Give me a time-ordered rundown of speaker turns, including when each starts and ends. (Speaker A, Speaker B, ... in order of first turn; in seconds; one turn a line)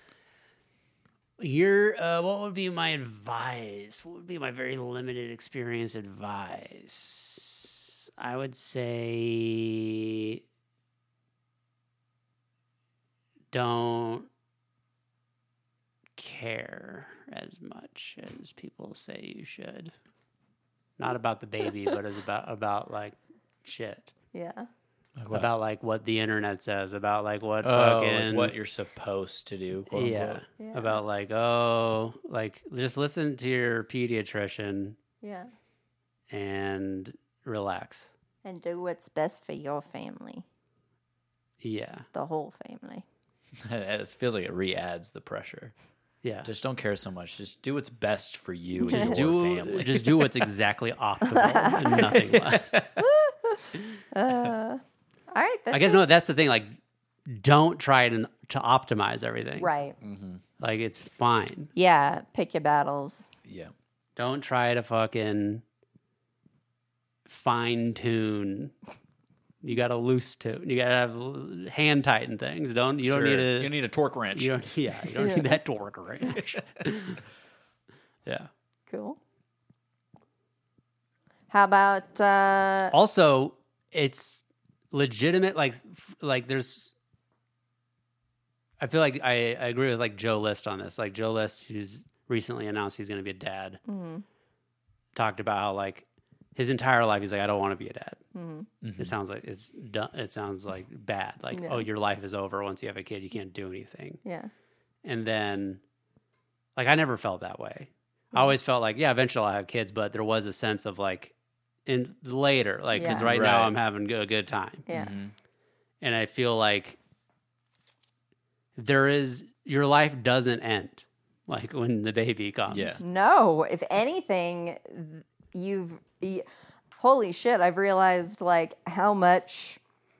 Speaker A: 1.4-10.4
Speaker A: 13.5-14.3
Speaker A: 16.2-19.9
Speaker A: 21.0-24.1
Speaker B: 24.3-24.7
Speaker C: 25.2-25.5
Speaker A: 25.3-28.5
Speaker C: 27.6-30.4
Speaker A: 29.9-35.0
Speaker B: 30.6-31.0
Speaker B: 35.2-35.5
Speaker A: 36.3-38.1
Speaker B: 38.4-40.5
Speaker A: 41.6-42.1
Speaker B: 42.1-43.0
Speaker C: 43.6-45.7
Speaker A: 46.2-46.5
Speaker C: 46.4-50.3
Speaker A: 48.9-52.8
Speaker B: 51.4-51.9
Speaker C: 51.8-53.0
Speaker B: 53.0-56.1
Speaker A: 55.7-59.7
Speaker B: 59.6-60.0
Speaker C: 60.0-60.4
Speaker A: 60.6-61.7
Speaker B: 61.8-63.3
Speaker C: 63.5-63.7
Speaker A: 64.2-65.6
Speaker A: 67.3-68.7
Speaker A: 69.6-73.7
Speaker C: 73.0-74.5
Speaker A: 74.3-77.2
Speaker B: 75.2-75.6
Speaker B: 78.9-79.2
Speaker B: 81.5-82.9
Speaker A: 82.9-86.9
Speaker A: 88.8-93.8
Speaker B: 93.9-94.2
Speaker A: 95.2-98.2
Speaker B: 98.3-98.7
Speaker C: 98.8-99.2
Speaker A: 99.0-104.2
Speaker B: 101.5-101.8
Speaker B: 104.2-104.5
Speaker A: 105.0-105.8
Speaker A: 106.8-111.3
Speaker A: 111.9-114.9
Speaker B: 112.9-113.3
Speaker C: 113.0-113.8
Speaker B: 114.9-115.2
Speaker C: 114.9-115.3
Speaker A: 116.0-117.0
Speaker A: 118.8-123.0
Speaker C: 122.7-123.0
Speaker B: 123.0-126.5
Speaker B: 127.0-129.8